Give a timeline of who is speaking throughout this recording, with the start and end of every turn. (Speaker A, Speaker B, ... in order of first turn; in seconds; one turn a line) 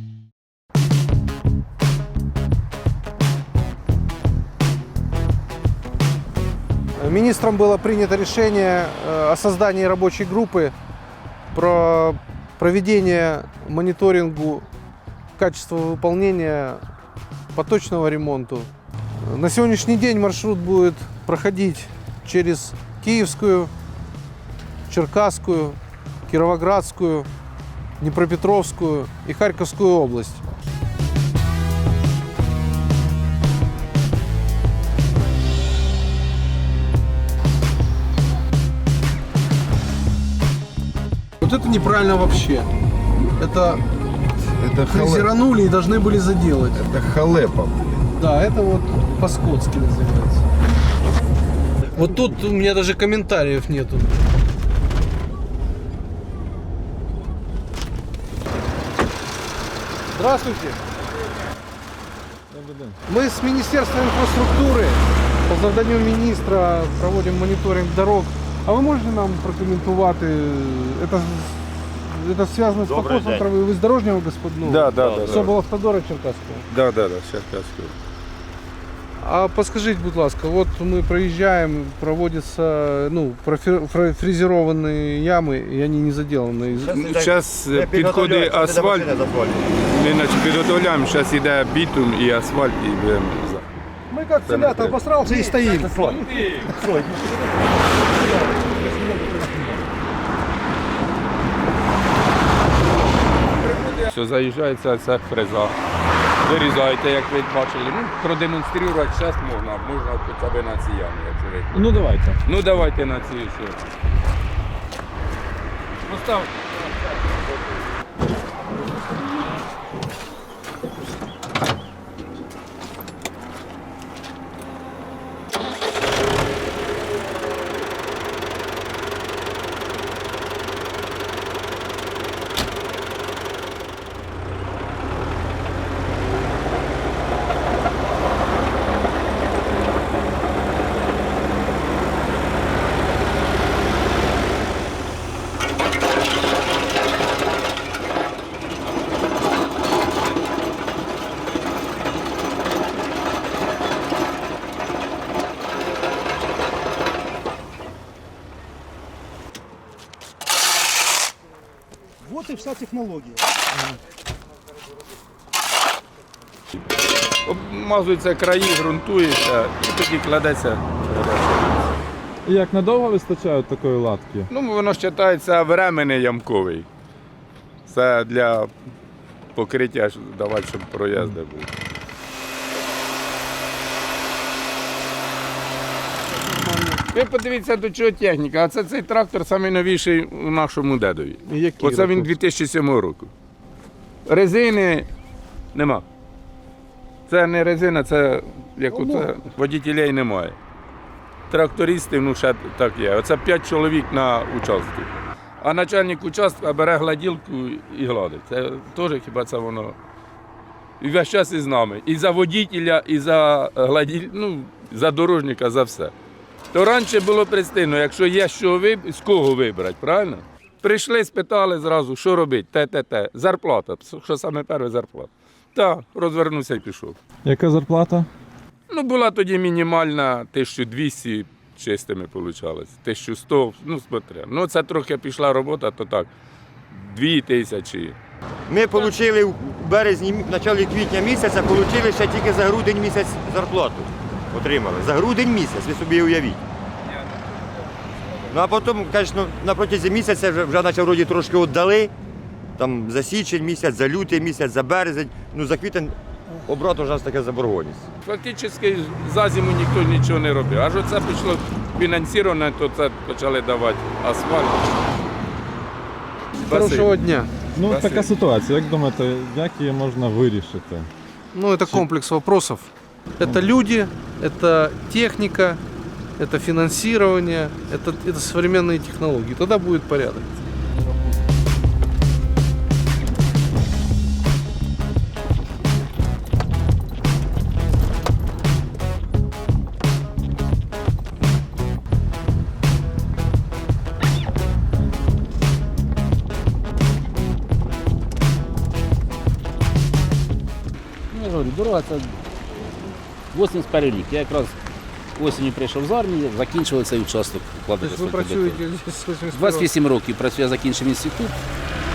Speaker A: 7.0-10.7
Speaker A: 11.5-14.7
Speaker A: 15.4-16.8
Speaker A: 17.5-18.7
Speaker A: 19.2-23.7
Speaker A: 24.9-27.3
Speaker A: 28.0-30.4
Speaker A: 41.4-42.7
Speaker A: 43.4-43.8
Speaker B: 44.6-45.3
Speaker A: 44.8-46.9
Speaker B: 46.8-47.9
Speaker A: 48.1-50.4
Speaker A: 51.9-54.2
Speaker A: 60.1-60.8
Speaker C: 62.5-63.0
Speaker A: 63.1-76.6
Speaker D: 72.8-73.5
Speaker E: 74.6-75.5
Speaker D: 75.0-75.5
Speaker E: 76.7-77.9
Speaker A: 79.2-86.9
Speaker D: 86.8-89.7
Speaker E: 86.9-89.1
Speaker E: 89.8-93.7
Speaker E: 94.4-95.0
Speaker A: 94.6-95.9
Speaker B: 95.3-95.8
Speaker D: 95.3-97.2
Speaker E: 96.0-96.7
Speaker B: 99.0-99.3
Speaker E: 103.6-105.8
Speaker E: 106.4-111.8
Speaker C: 111.7-112.4
Speaker E: 112.5-113.8
Speaker E: 116.1-116.5
Speaker E: 167.4-171.9
Speaker C: 172.5-174.5
Speaker E: 174.5-176.9
Speaker E: 177.9-178.7
Speaker E: 179.6-181.7
Speaker A: 186.3-187.0
Speaker E: 187.1-193.3
Speaker A: 191.5-192.3
Speaker E: 194.3-195.1
Speaker E: 195.7-196.0
Speaker E: 197.3-200.6
Speaker A: 198.9-199.3
Speaker E: 201.5-210.0
Speaker E: 211.0-216.1
Speaker E: 216.7-227.2
Speaker C: 227.4-228.3
Speaker E: 228.9-236.3
Speaker E: 236.9-238.2
Speaker D: 238.7-246.6
Speaker D: 248.5-252.1
Speaker D: 252.8-258.1
Speaker E: 258.2-264.9
Speaker A: 266.6-267.5
Speaker E: 266.7-267.1
Speaker C: 267.8-271.1
Speaker E: 267.9-268.2
Speaker A: 271.5-275.8
Speaker A: 276.4-280.6
Speaker F: 301.3-302.4
Speaker F: 303.5-304.8
Speaker F: 305.4-308.9
Speaker A: 308.0-309.9
Speaker F: 309.5-311.6